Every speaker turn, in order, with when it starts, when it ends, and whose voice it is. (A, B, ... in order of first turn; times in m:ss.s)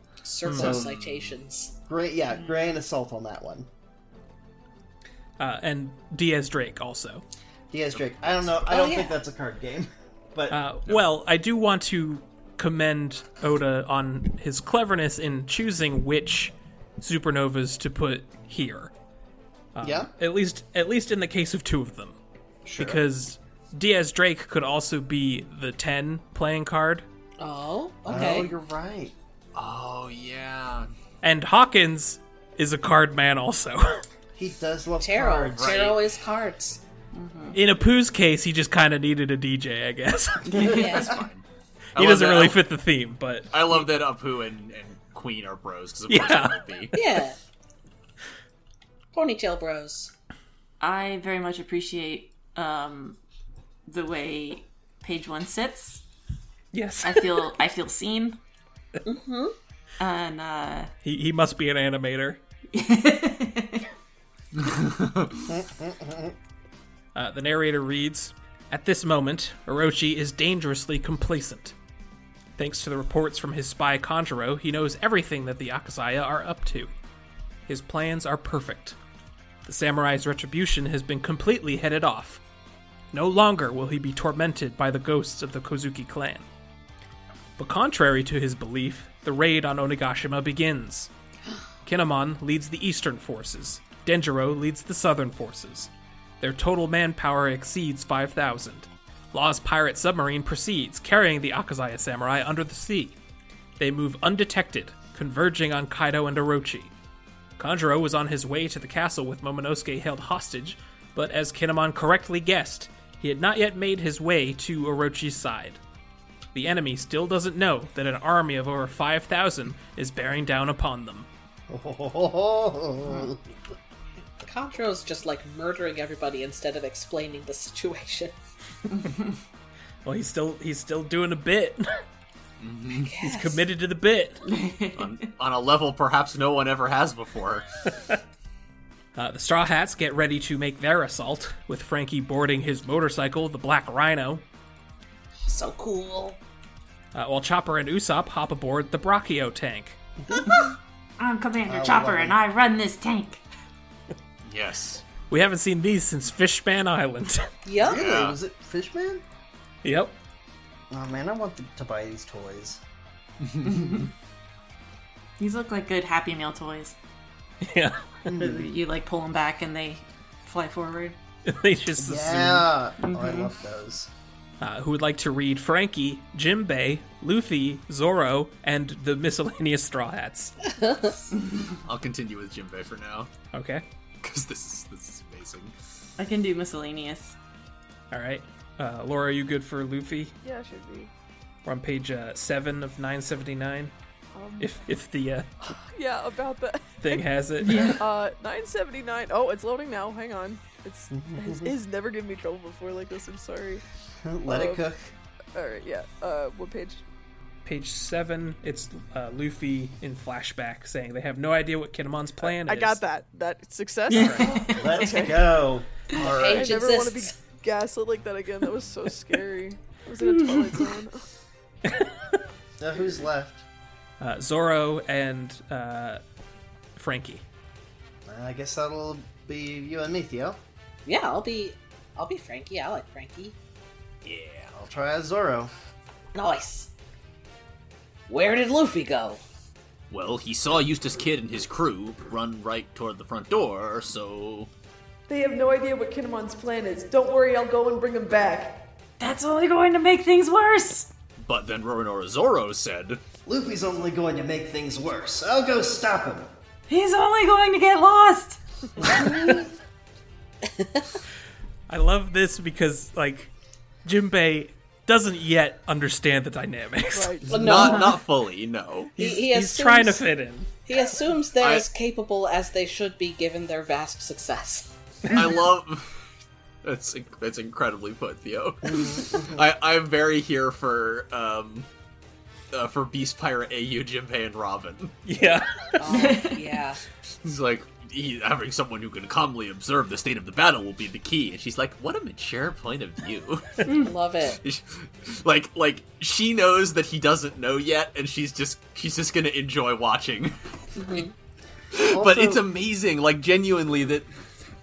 0:00.2-0:01.7 A
0:00.4-0:00.7 B
0:00.5-0:00.9 C
0:00.6-0:01.4 D
0:01.9-0:03.7 C
0:05.4-0:07.2 B
0:07.7-0:10.6 C
0:08.7-0:09.2 A
0:10.5-0:18.9 B
0:19.7-0:22.2 B
0:19.8-0:20.1 C
0:22.6-0:23.0 C
0:22.8-0:27.0 B
0:27.4-0:28.5 A
0:28.0-0:29.1 C
0:29.5-0:30.9 D
0:31.2-0:34.0 B
0:34.4-0:35.9 C
0:35.0-0:36.8 A
0:35.5-0:36.0 D
0:37.1-0:37.6 E
0:37.5-0:40.8 B
0:40.5-0:41.0 E
0:40.5-0:41.4 D
0:40.6-0:41.2 A
0:41.9-0:42.6 D
0:42.0-0:43.5 B
0:43.5-0:47.0 D
0:46.1-0:46.6 B
0:46.9-0:47.4 A
0:49.1-0:50.1 A
0:50.8-0:53.2 E
0:53.8-0:56.0 E
0:56.7-0:57.3 B
0:57.0-0:58.4 E
0:59.0-0:59.5 A
1:00.0-1:00.9 E
1:01.0-1:02.4 B
1:02.7-1:03.8 E
1:04.5-1:05.4 D
1:05.5-1:06.3 C
1:07.1-1:11.7 B
1:12.6-1:16.9 B
1:17.7-1:19.0 B
1:19.6-1:22.4 B
1:23.1-1:26.4 B
1:27.6-1:31.1 B
1:31.8-1:35.9 B
1:36.4-1:43.2 B
1:43.8-1:46.9 B
1:47.6-1:55.8 B
1:56.5-2:01.3 B
2:01.7-2:03.4 C
2:04.4-2:08.3 A
2:10.0-2:12.0 B
2:12.6-2:13.1 D
2:13.0-2:13.6 A
2:13.2-2:14.4 B
2:14.5-2:15.1 E
2:15.0-2:17.6 D
2:19.2-2:24.4 B
2:25.5-2:26.4 A
2:27.1-2:30.0 B
2:30.3-2:30.6 C
2:31.2-2:33.4 E
2:31.6-2:32.4 C
2:34.4-2:35.0 D
2:35.3-2:37.5 B
2:37.6-2:38.0 A
2:37.8-2:39.2 C
2:37.9-2:38.4 D
2:39.8-2:40.2 B
2:40.9-2:42.8 C
2:43.4-2:44.1 D
2:43.6-2:44.0 E
2:45.4-2:46.9 E
2:47.6-2:48.1 B
2:48.2-2:48.7 C
2:48.4-2:51.2 E
2:51.4-2:52.7 B
2:52.0-2:54.1 C
2:53.0-2:53.5 E
2:54.6-3:00.5 B
3:00.7-3:01.2 A
3:01.8-3:03.3 D
3:03.5-3:03.8 B
3:04.2-3:05.7 D
3:06.2-3:07.3 E
3:08.1-3:10.3 B
3:10.4-3:11.1 F
3:11.6-3:13.9 B
3:14.3-3:14.8 F
3:14.6-3:15.7 B
3:15.6-3:17.2 F
3:17.0-3:18.0 B
3:17.6-3:18.0 E
3:18.0-3:23.8 F
3:21.1-3:21.7 C
3:24.2-3:25.1 C
3:24.4-3:24.9 F
3:25.5-3:27.0 F
3:27.6-3:33.0 B
3:32.4-3:35.5 F
3:34.1-3:35.4 E
3:34.2-3:36.8 C
3:36.2-3:37.3 A
3:36.4-3:41.2 F
3:40.2-3:40.9 E
3:41.9-3:42.4 B
3:42.8-3:43.6 C
3:44.2-3:46.2 B
3:47.0-3:47.4 B
3:48.3-3:50.6 C
3:51.0-3:53.5 A
3:54.2-3:54.8 D
3:54.8-3:55.7 C
3:56.3-3:56.9 A
3:58.3-3:59.4 A
4:00.1-4:04.7 D
4:05.3-4:08.8 F
4:09.2-4:11.1 E
4:11.4-4:13.2 D
4:13.4-4:16.5 C
4:16.9-4:19.3 E
4:19.0-4:19.7 C
4:20.7-4:21.0 A
4:21.9-4:23.5 B
4:24.0-4:27.4 B
4:27.1-4:27.9 F
4:27.5-4:28.2 A
4:27.6-4:29.2 D
4:29.2-4:30.3 A
4:29.2-4:30.7 B
4:30.8-4:34.9 A
4:31.6-4:31.8 D
4:35.3-4:36.1 D
4:36.8-4:41.9 D
4:38.8-4:39.6 C
4:42.7-4:45.2 D
4:45.2-4:46.0 B
4:46.0-4:47.0 A
4:46.0-4:46.6 E
4:47.4-4:53.9 D
4:53.9-4:54.6 A
4:54.5-5:00.5 D
5:01.0-5:01.3 A
5:01.9-5:04.3 D
5:02.1-5:02.6 C